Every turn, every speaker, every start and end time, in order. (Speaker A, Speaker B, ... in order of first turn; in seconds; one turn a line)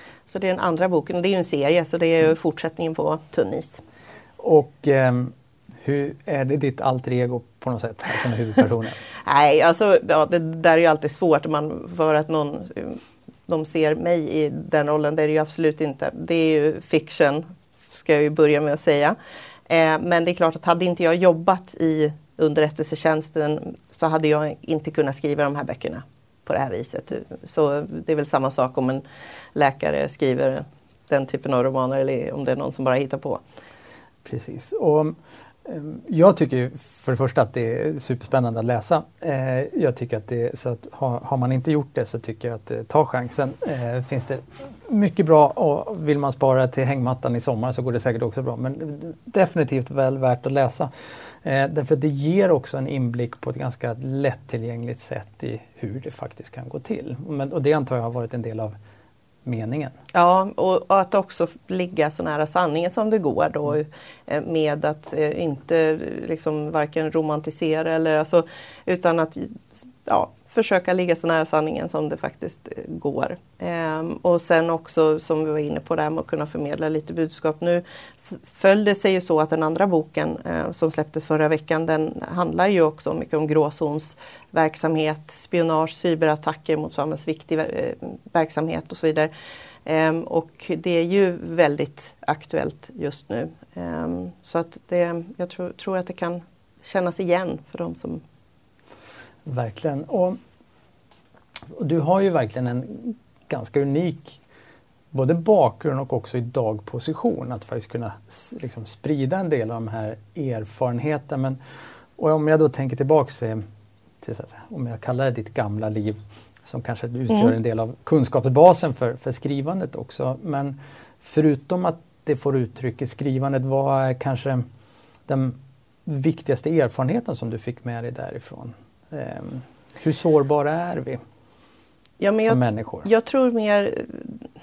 Speaker A: 0.3-3.8
Speaker B: 4.4-9.0
Speaker A: 9.2-19.1
Speaker A: 19.7-29.0
Speaker A: 29.5-33.4
Speaker B: 34.2-50.9
Speaker B: 51.4-58.7
Speaker B: 59.4-60.0
Speaker A: 60.1-89.3
Speaker A: 89.8-98.2
Speaker B: 99.4-100.4
Speaker B: 101.8-104.4
Speaker B: 105.1-111.6
Speaker B: 112.2-113.6
Speaker B: 114.2-124.6
Speaker B: 125.3-131.2
Speaker A: 132.2-134.4
Speaker B: 132.4-133.1